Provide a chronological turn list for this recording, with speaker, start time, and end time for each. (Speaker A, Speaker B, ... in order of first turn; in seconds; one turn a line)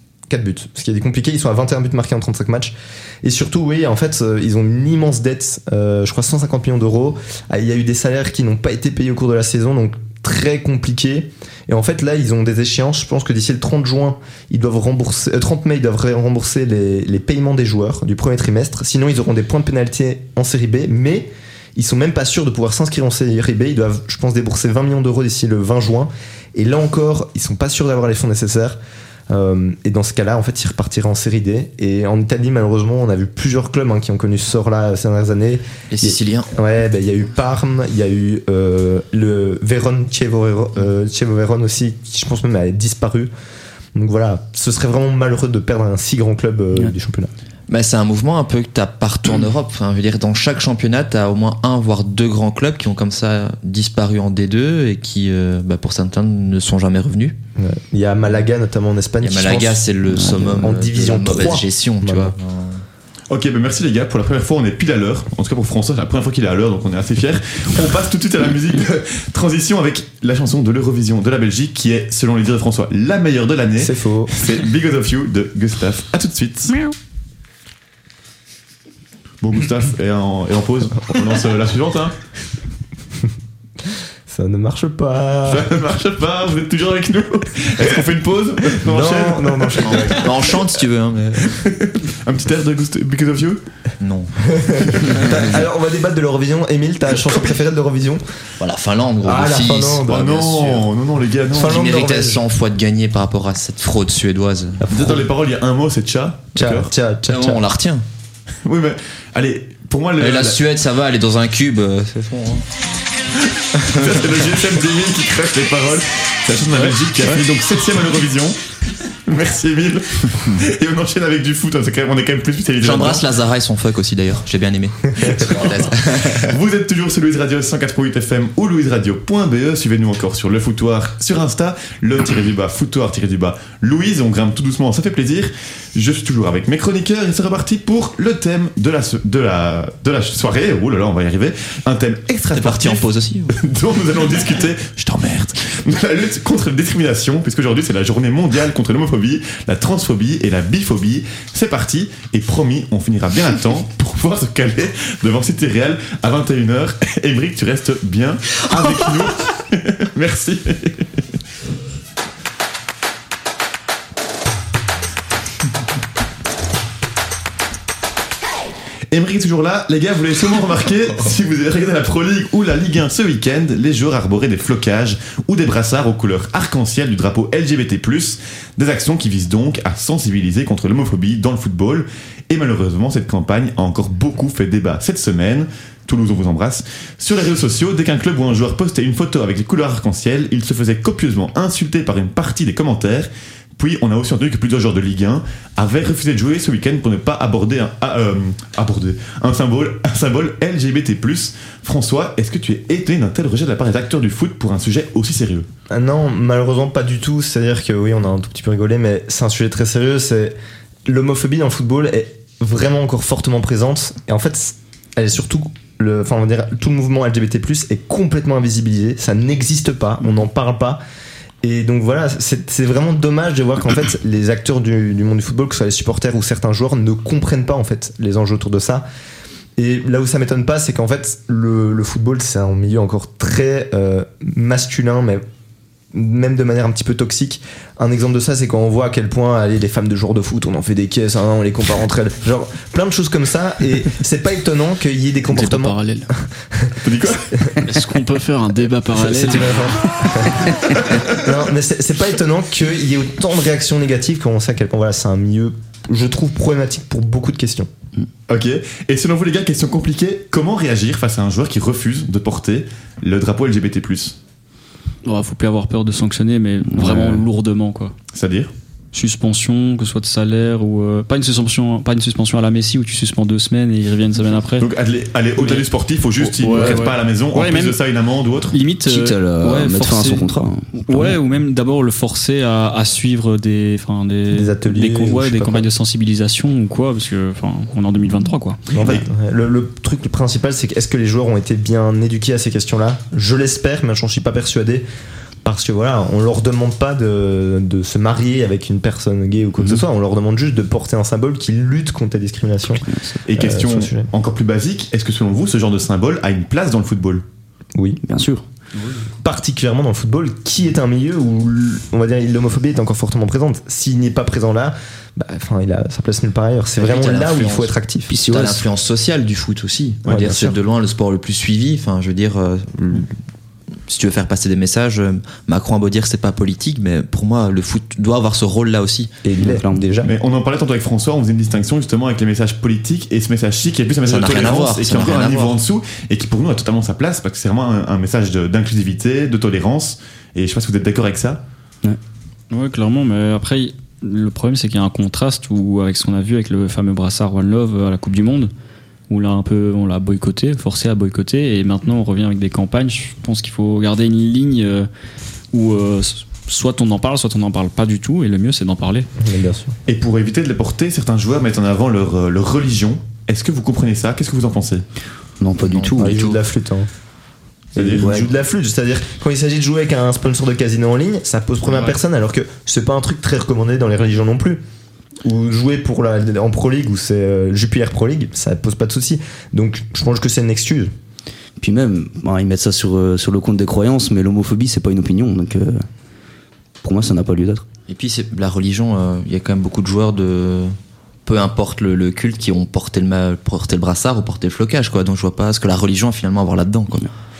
Speaker A: 0.3-28.8
Speaker A: 29.3-43.3
Speaker B: 35.9-36.5
Speaker A: 43.9-47.3
Speaker B: 47.7-57.4
Speaker A: 57.6-59.8
Speaker B: 59.2-62.8
Speaker C: 60.1-60.6
Speaker A: 60.5-62.3
Speaker D: 63.3-76.9
Speaker A: 73.8-74.3
Speaker D: 79.4-82.2
Speaker A: 84.3-85.7
Speaker D: 85.5-90.2
Speaker A: 88.7-90.5
Speaker B: 89.8-91.6
Speaker D: 91.4-93.6
Speaker B: 94.0-95.4
Speaker A: 94.5-98.2
Speaker B: 98.6-100.9
Speaker A: 99.2-100.3
Speaker D: 100.1-101.8
Speaker A: 101.5-102.4
Speaker B: 101.5-104.8
Speaker A: 104.8-105.3
Speaker D: 104.9-106.9
Speaker A: 106.5-107.6
Speaker B: 107.3-108.0
Speaker D: 108.6-110.6
Speaker B: 110.2-112.6
Speaker D: 113.7-118.6
Speaker D: 119.2-123.2
Speaker B: 122.8-126.5
Speaker D: 125.4-161.1
Speaker B: 142.5-143.6
Speaker D: 169.1-205.7
Speaker A: 205.9-210.5
Speaker A: 211.1-221.0
Speaker A: 221.6-229.0
Speaker A: 229.8-235.4
Speaker A: 236.1-247.8
Speaker E: 245.5-246.3
Speaker D: 247.0-247.8
Speaker E: 247.8-249.9
Speaker A: 249.2-250.7
Speaker D: 250.9-251.4
Speaker A: 251.3-257.9
Speaker D: 258.5-264.4
Speaker E: 265.2-268.1
Speaker C: 266.9-267.4
Speaker D: 268.3-268.7
Speaker E: 269.1-274.9
Speaker D: 274.8-278.8
Speaker E: 275.6-275.8
Speaker E: 276.4-278.0
Speaker E: 278.7-288.9
Speaker C: 279.0-281.4
Speaker A: 284.5-285.9
Speaker A: 288.9-295.0
Speaker A: 295.6-304.3
Speaker C: 303.0-303.4
Speaker D: 303.4-307.4
Speaker A: 307.9-308.2
Speaker C: 308.2-308.6
Speaker A: 309.4-318.3
Speaker B: 317.0-323.3
Speaker C: 318.3-318.8
Speaker A: 320.2-320.8
Speaker B: 324.1-329.4
Speaker A: 329.4-330.3
Speaker C: 329.6-330.1
Speaker D: 330.2-341.6
Speaker B: 334.2-335.8
Speaker E: 342.7-348.7
Speaker E: 349.3-355.1
Speaker E: 355.7-359.3
Speaker A: 359.4-359.9
Speaker D: 360.1-365.0
Speaker C: 365.6-366.5
Speaker B: 365.8-366.6
Speaker A: 366.1-367.1
Speaker A: 367.9-374.8
Speaker D: 367.9-368.4
Speaker C: 368.2-368.5
Speaker A: 375.4-381.1
Speaker C: 381.8-386.0
Speaker C: 387.0-387.9
Speaker B: 388.1-390.9
Speaker B: 391.4-397.3